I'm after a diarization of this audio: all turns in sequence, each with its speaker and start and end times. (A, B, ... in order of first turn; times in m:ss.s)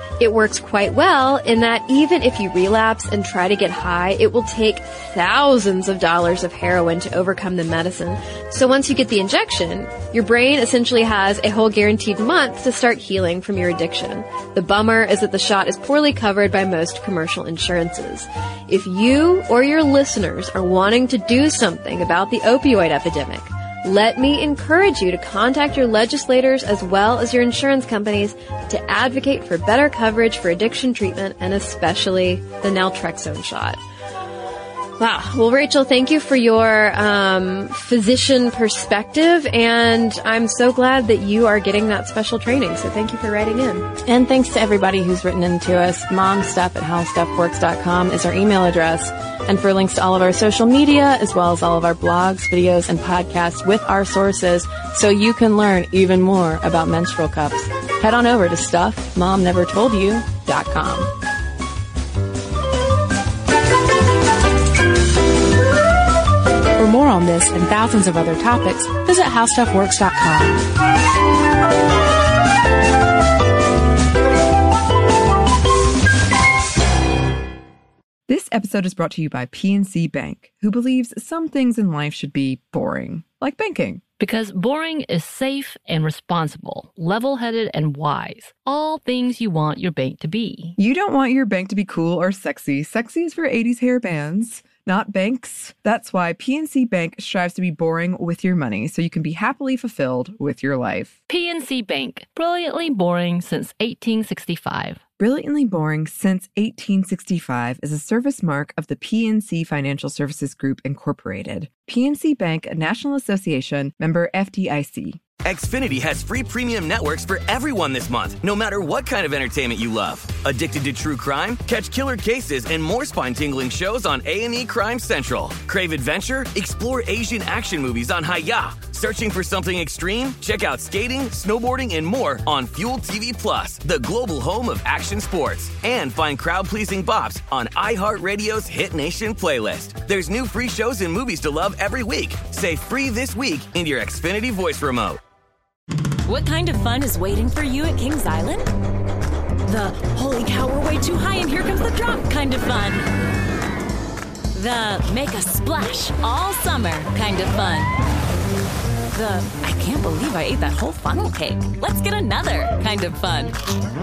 0:00.2-0:33.8 A
0:35.0-0:43.9 A
0:44.0-1:01.1 B
1:06.8-1:10.7 C
1:18.3-1:24.0 D
1:24.2-1:30.8 E
1:30.8-1:41.2 D
1:41.3-1:45.0 E
1:45.2-1:55.2 D
1:55.4-2:25.2 F
2:26.2-2:28.7 G
2:29.6-2:33.1 G
2:34.5-2:37.9 G
2:39.1-2:43.6 G